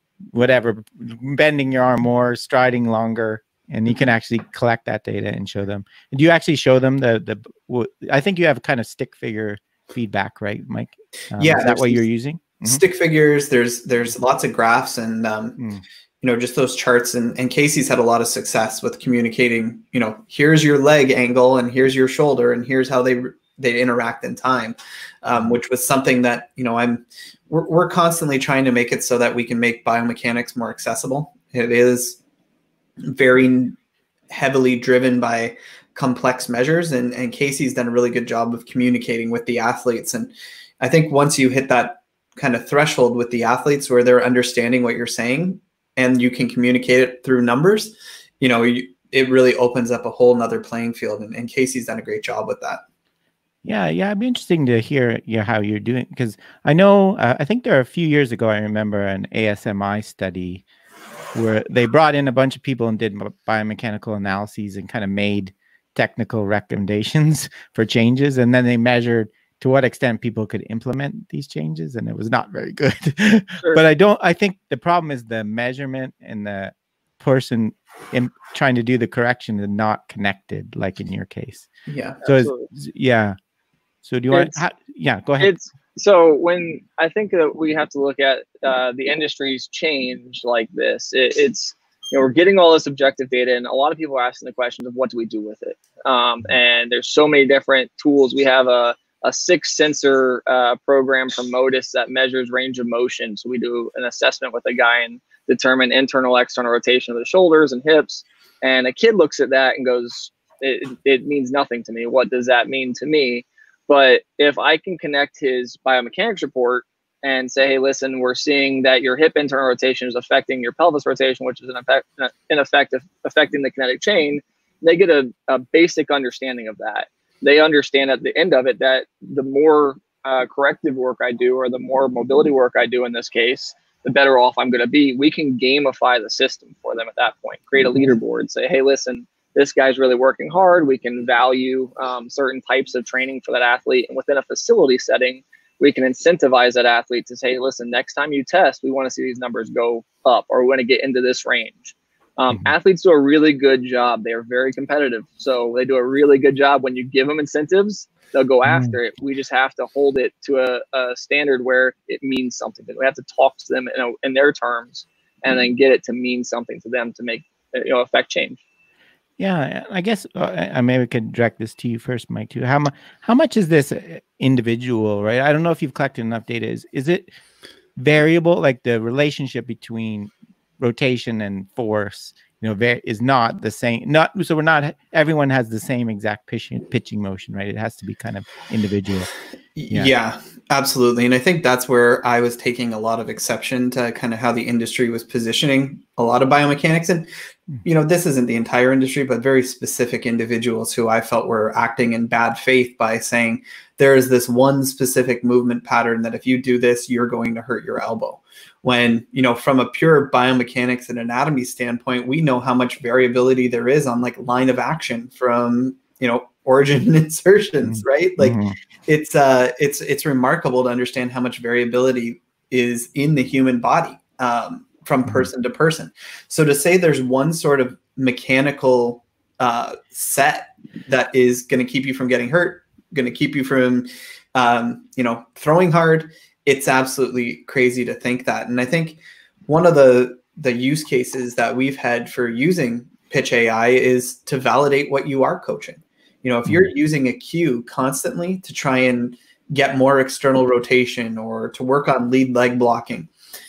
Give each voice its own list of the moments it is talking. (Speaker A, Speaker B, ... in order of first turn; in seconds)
Speaker A: 0.3-12.8, 15.6-15.8, 53.6-60.6, 61.3-81.7, 82.2-83.4, 84.0-85.5, 158.7-159.0, 169.4-177.3, 178.0-189.3, 217.8-218.8
Speaker B: 11.4-12.1, 12.6-15.6, 16.2-32.2, 33.0-33.8, 34.3-52.8, 81.9-82.2, 189.8-197.3, 197.8-253.3
Speaker C: 82.2-82.7, 84.3-84.6, 85.4-168.6